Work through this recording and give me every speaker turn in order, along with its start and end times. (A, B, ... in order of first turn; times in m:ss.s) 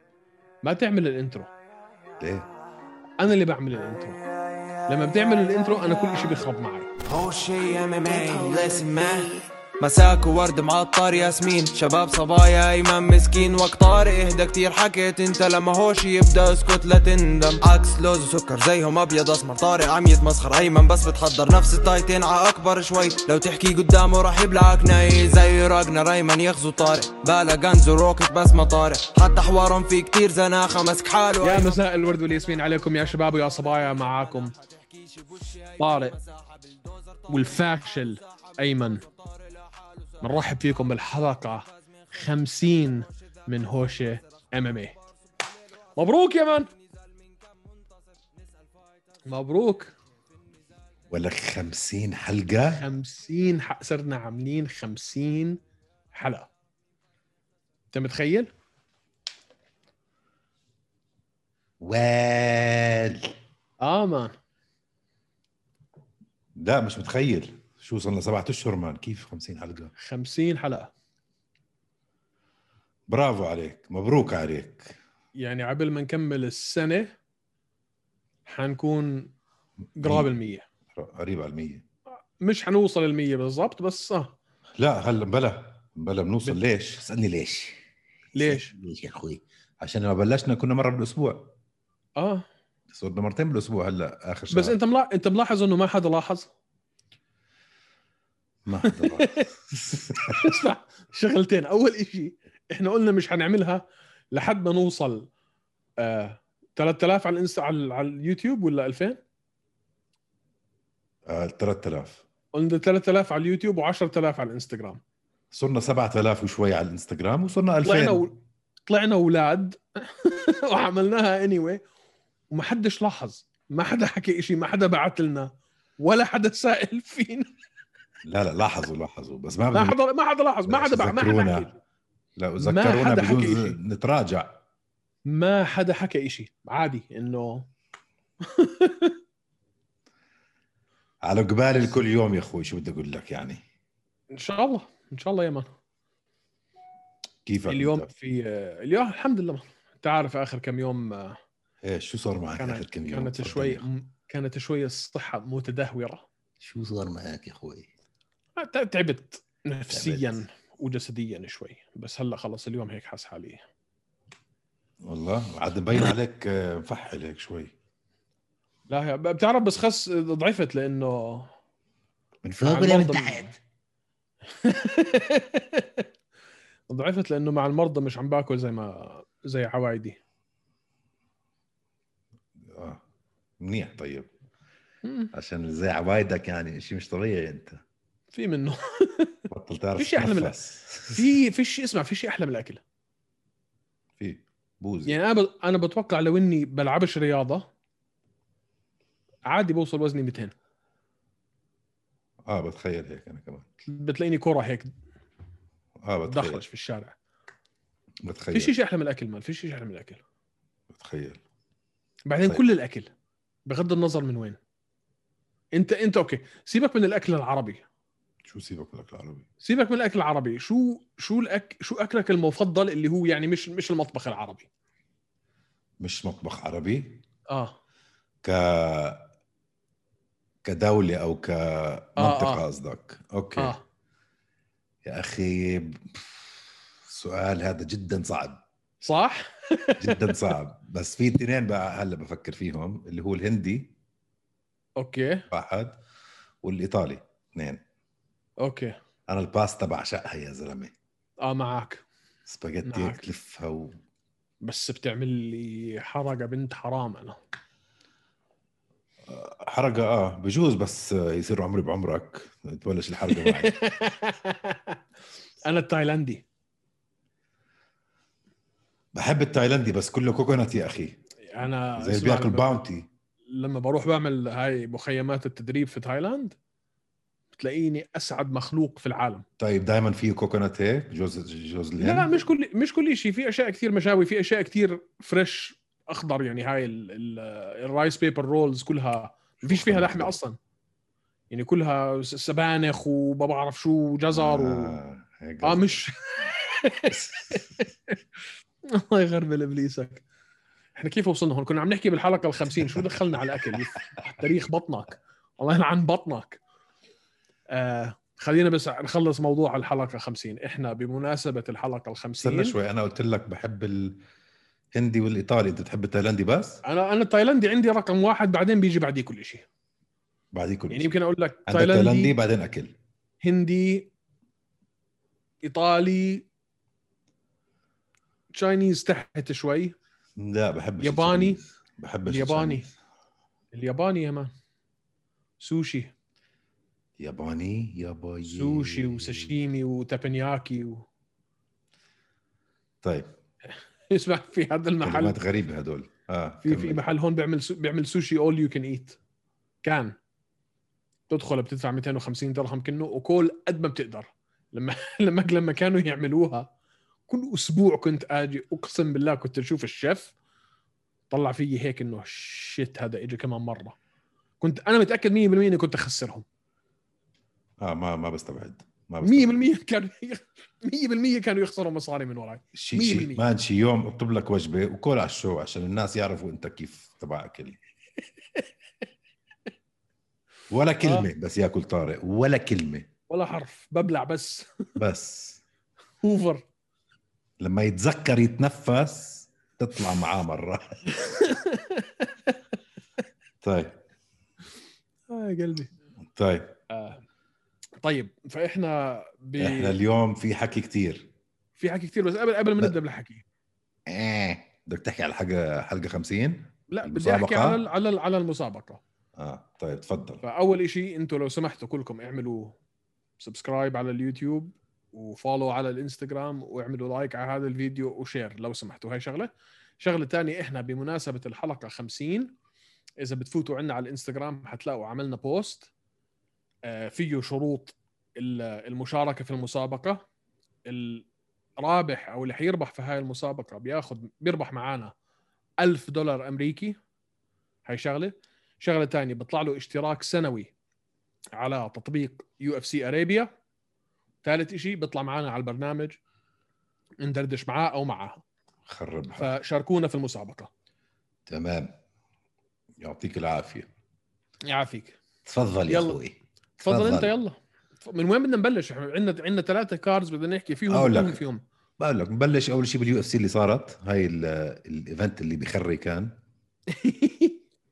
0:00.6-0:01.5 A
0:02.2-0:02.5 B
0:03.2-0:04.2 A
0:04.9-0:06.9 A
0:07.0-0:31.8 C
0:31.4-0:34.5 A
0:34.6-0:37.3 C
0:35.8-0:36.2 A
0:37.3-0:39.0 A
0:39.1-0:40.1 C
0:40.2-0:45.0 A
0:46.0-0:46.7 A
0:49.3-0:49.9 A
0:51.1-0:52.8 B
0:52.7-0:55.6 A
0:56.1-0:56.5 A
0:57.9-0:58.5 A
1:01.8-1:03.3 B
1:03.8-1:04.3 A
1:06.6-1:09.9 B
1:10.0-1:10.9 A
1:13.1-1:15.0 B
1:15.4-1:17.1 A
1:18.5-1:19.3 A
1:20.0-1:20.6 A
1:20.0-1:20.3 B
1:21.0-1:21.8 B
1:22.4-1:24.4 A
1:24.8-1:27.8 B
1:28.4-1:28.7 A
1:28.4-1:31.6 B
1:32.2-1:32.4 A
1:32.9-1:34.8 B
1:34.5-1:36.5 A
1:38.6-1:40.6 B
1:38.8-1:39.5 A
1:40.2-1:45.3 A
1:46.0-1:49.2 A
1:51.3-1:52.2 B
1:52.5-1:55.0 A
1:55.5-1:58.2 B
1:57.8-1:58.3 A
1:58.9-2:01.8 A
2:02.5-2:07.5 A
2:08.2-2:10.0 B
2:09.7-2:11.8 A
2:10.7-2:11.7 B
2:12.4-2:14.6 B
2:12.6-2:13.8 A
2:15.3-2:17.7 A
2:18.4-2:19.2 A
2:21.2-2:23.6 B
2:24.3-2:25.7 A
2:27.4-2:28.1 B
2:27.7-2:31.4 A
2:31.8-2:33.9 B
2:32.6-2:36.2 A
2:36.6-2:37.9 B
2:38.6-2:43.6 A
2:39.9-2:40.4 B
2:45.0-2:47.7 B
2:48.9-2:51.5 A
2:52.4-2:53.6 B
2:52.6-2:53.5 A
2:54.5-2:56.1 A
2:56.9-3:00.2 A
3:02.7-3:03.0 B
3:03.6-3:04.3 B
3:05.0-3:05.3 A
3:05.3-3:07.8 B
3:08.3-3:09.4 A
3:09.5-3:11.3 B
3:10.0-3:10.6 A
3:11.2-3:12.8 A
3:14.2-3:15.2 B
3:15.1-3:17.7 A
3:19.5-3:20.5 A
3:22.5-3:23.7 B
3:23.9-3:24.9 A
3:26.0-3:26.6 B
3:26.3-3:27.2 A
3:28.2-3:28.7 B
3:28.5-3:30.2 A
3:30.9-3:31.4 B
3:32.3-3:33.1 A
3:33.7-3:34.6 A
3:35.7-3:37.8 A
3:38.5-3:39.5 B
3:39.6-3:44.7 A
3:46.0-3:47.2 B
3:47.5-3:47.8 A
3:48.4-3:49.3 B
3:50.6-3:53.8 B
3:52.2-3:52.6 A
3:53.6-3:53.8 A
3:55.0-3:56.5 B
3:57.1-3:58.6 B
3:59.0-4:00.5 A
4:00.0-4:03.9 B
4:05.0-4:05.4 A
4:05.5-4:06.0 B
4:06.6-4:07.8 B
4:08.6-4:09.0 A
4:09.3-4:10.9 B
4:11.4-4:12.0 A
4:12.5-4:14.0 B
4:12.8-4:13.2 A
4:14.6-4:17.4 A
4:19.3-4:23.8 B
4:23.3-4:25.0 A
4:25.6-4:26.4 A
4:29.2-4:31.2 B
4:31.5-4:32.9 A
4:32.0-4:33.1 B
4:33.5-4:36.6 A
4:37.6-4:39.4 A
4:39.6-4:42.3 B
4:42.0-4:50.6 A
4:49.6-4:50.4 B
4:51.5-4:55.0 A
4:54.3-4:56.0 B
4:55.6-4:58.2 A
4:57.1-4:57.6 B
4:58.8-5:00.2 A
5:01.0-5:06.6 A
5:02.9-5:04.0 B
5:07.7-5:12.8 A
5:12.4-5:14.2 B
5:14.9-5:16.8 B
5:16.8-5:19.7 A
5:20.5-5:21.1 B
5:20.9-5:22.4 A
5:21.7-5:23.0 B
5:23.4-5:24.1 A
5:25.6-5:26.5 A
5:28.5-5:30.0 A
5:30.4-5:32.9 B
5:31.0-5:31.6 A
5:32.3-5:32.9 A
5:33.7-5:34.5 A
5:35.6-5:36.1 A
5:37.2-5:39.5 B
5:38.5-5:41.0 A
5:43.0-5:43.3 B
5:44.1-5:45.4 A
5:45.0-5:47.1 B
5:46.6-5:49.2 A
5:49.8-5:50.2 A
5:51.3-5:56.7 A
5:57.3-6:00.3 A
6:01.3-6:04.0 A
6:04.6-6:06.4 A
6:07.8-6:09.6 B
6:09.2-6:13.4 A
6:12.7-6:17.8 B
6:20.7-6:23.1 B
6:21.0-6:21.3 A
6:23.3-6:25.0 A
6:25.0-6:25.6 B
6:26.2-6:26.7 A
6:27.6-6:31.1 B
6:31.1-6:32.6 A
6:33.6-6:34.0 B
6:35.3-6:35.9 A
6:36.3-6:36.8 B
6:36.9-6:37.2 A
6:38.0-6:40.0 A
6:39.6-6:41.3 B
6:41.8-6:43.4 A
6:44.1-6:47.8 B
6:46.9-6:49.0 A
6:49.4-6:50.4 B
6:50.4-6:52.8 A
6:53.4-7:02.5 A
7:03.2-7:05.9 A
7:06.8-7:10.2 A
7:10.9-7:11.3 A
7:11.8-7:15.1 A
7:15.8-7:17.0 A
7:17.9-7:20.7 A
7:21.6-7:23.5 A
7:24.4-7:26.2 A
7:27.2-7:28.4 A
7:28.9-7:29.6 B
7:29.4-7:30.7 A
7:31.5-7:31.9 B
7:33.0-7:33.9 B
7:34.6-7:35.2 A
7:35.4-7:37.3 B
7:35.9-7:36.2 A
7:36.8-7:41.6 A
7:40.9-7:41.4 B
7:42.0-7:46.4 B
7:46.9-7:47.6 A